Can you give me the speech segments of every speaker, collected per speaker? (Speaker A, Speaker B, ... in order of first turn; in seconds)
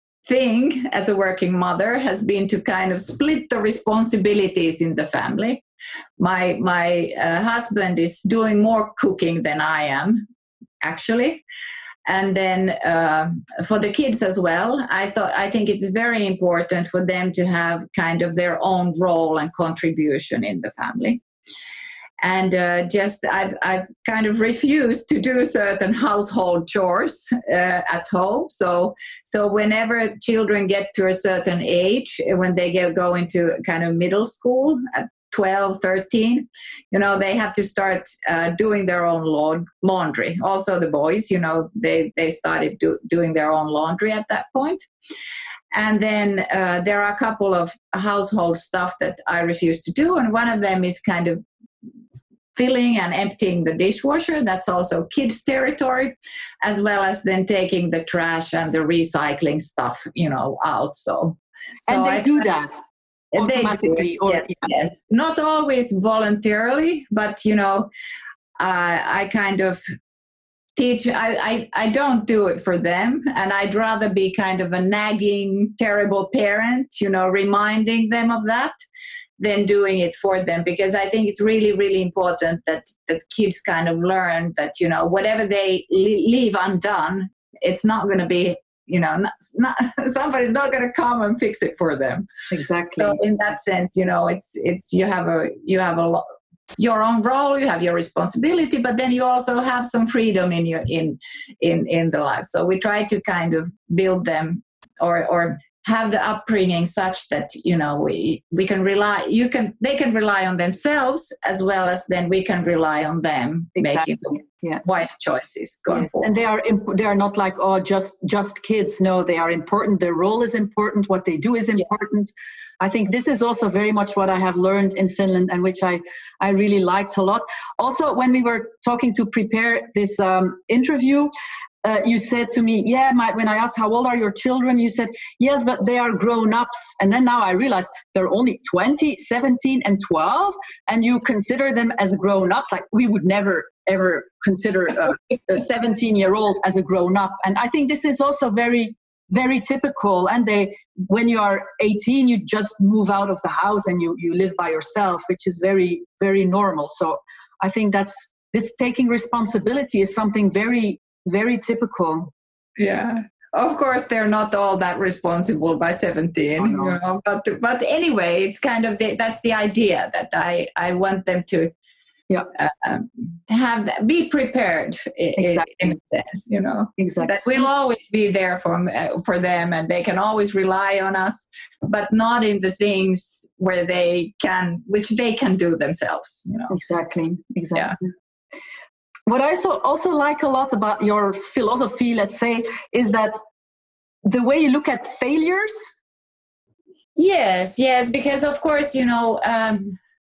Speaker A: 0.3-5.6, 6.2-10.3, 10.8-11.4, 12.1-21.2, 22.2-44.9, 45.7-51.4, 52.5-62.4, 63.3-67.9, 68.6-69.8, 70.8-78.8, 79.4-92.3, 93.0-96.3, 96.8-116.3, 162.8-171.7, 172.6-186.7, 197.2-200.0
Speaker B: 61.9-62.8, 63.4-64.7, 92.5-93.2, 113.8-114.8, 115.9-131.3, 131.8-162.3, 166.6-166.9, 175.4-175.7, 177.0-177.3, 186.7-188.1, 189.3-193.4, 194.3-195.9